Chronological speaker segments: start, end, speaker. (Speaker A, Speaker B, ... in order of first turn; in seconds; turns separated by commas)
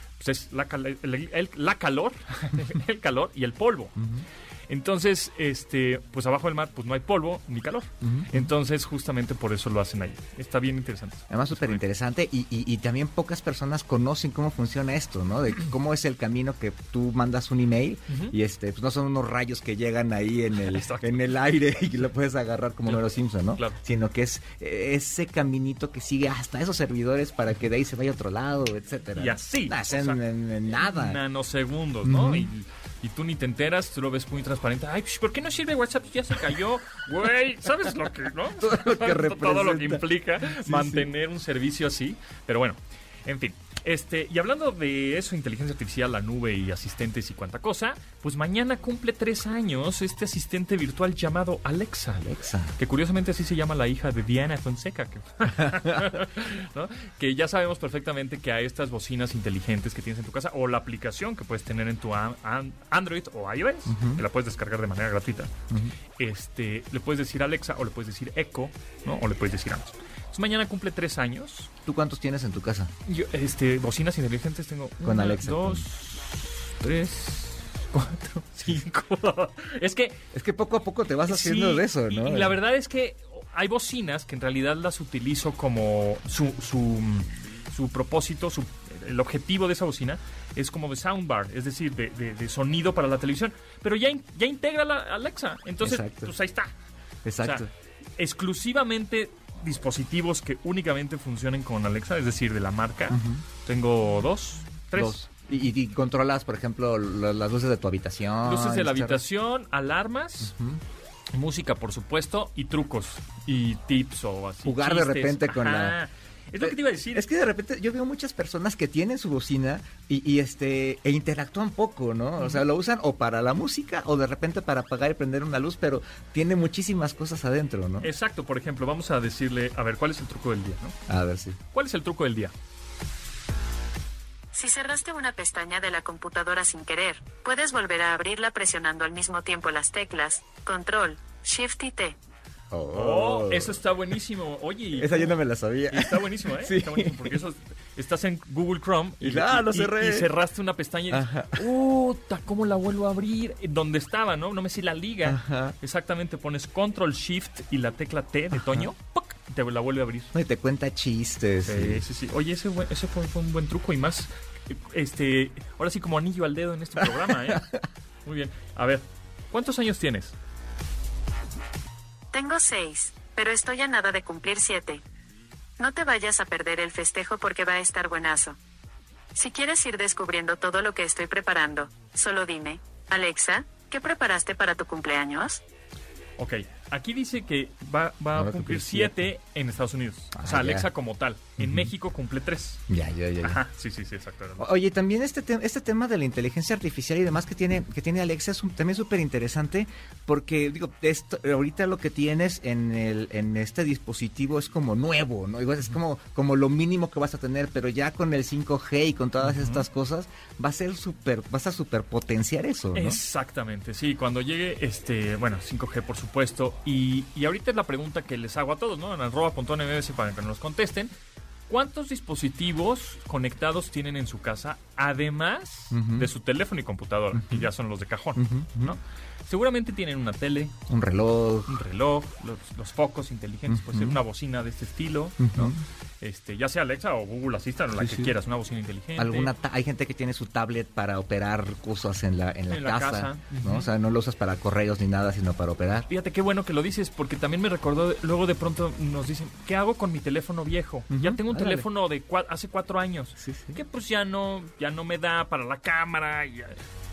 Speaker A: 0.2-4.0, Speaker B: 4.0-4.2, Speaker A: 4.7-11.8, Speaker B: 8.0-8.5, Speaker B: 11.3-31.2, Speaker A: 20.7-21.2, Speaker A: 22.9-23.8, Speaker A: 29.1-30.2, Speaker A: 30.7-65.5, Speaker B: 32.0-32.5, Speaker B: 38.6-41.0, Speaker B: 52.2-52.7, Speaker B: 63.9-64.2, Speaker A: 66.2-71.7, Speaker B: 71.8-72.9, Speaker A: 73.0-80.2, Speaker B: 75.0-75.8, Speaker B: 80.3-82.5, Speaker A: 81.3-96.7, Speaker B: 95.8-96.3, Speaker B: 97.2-97.7, Speaker A: 98.2-105.2, Speaker B: 103.1-103.4, Speaker B: 104.9-109.2, Speaker A: 108.4-110.5, Speaker B: 110.4-110.8, Speaker A: 111.3-117.2, Speaker B: 114.6-116.0, Speaker B: 116.6-128.1, Speaker A: 128.0-130.9, Speaker B: 131.1-131.6, Speaker A: 131.7-132.5, Speaker C: 134.5-142.2, Speaker B: 142.7-143.8, Speaker A: 142.9-145.4, Speaker B: 144.9-147.3, Speaker A: 145.9-160.3, Speaker B: 149.2-150.3, Speaker B: 151.1-151.6, Speaker B: 155.2-155.8, Speaker B: 158.5-158.9, Speaker B: 160.3-162.0, Speaker A: 161.6-167.7, Speaker B: 167.0-167.6, Speaker A: 168.2-170.3, Speaker C: 172.3-175.0, Speaker C: 175.8-178.6, Speaker C: 179.3-185.6, Speaker A: 186.4-192.8, Speaker B: 188.3-189.2, Speaker B: 190.3-190.9, Speaker B: 191.6-191.9, Speaker B: 192.9-193.6, Speaker A: 193.4-194.7, Speaker B: 194.6-213.2, Speaker A: 209.4-209.8, Speaker A: 212.9-221.1, Speaker A: 221.7-230.7, Speaker B: 225.9-226.3, Speaker B: 227.3-227.7, Speaker B: 228.3-228.9, Speaker B: 230.9-231.8, Speaker A: 231.7-239.5, Speaker B: 233.7-234.2, Speaker B: 235.4-235.8, Speaker B: 238.0-238.3, Speaker B: 239.2-246.1, Speaker A: 242.7-243.9, Speaker A: 246.1-256.8, Speaker B: 251.1-251.9, Speaker B: 253.4-253.8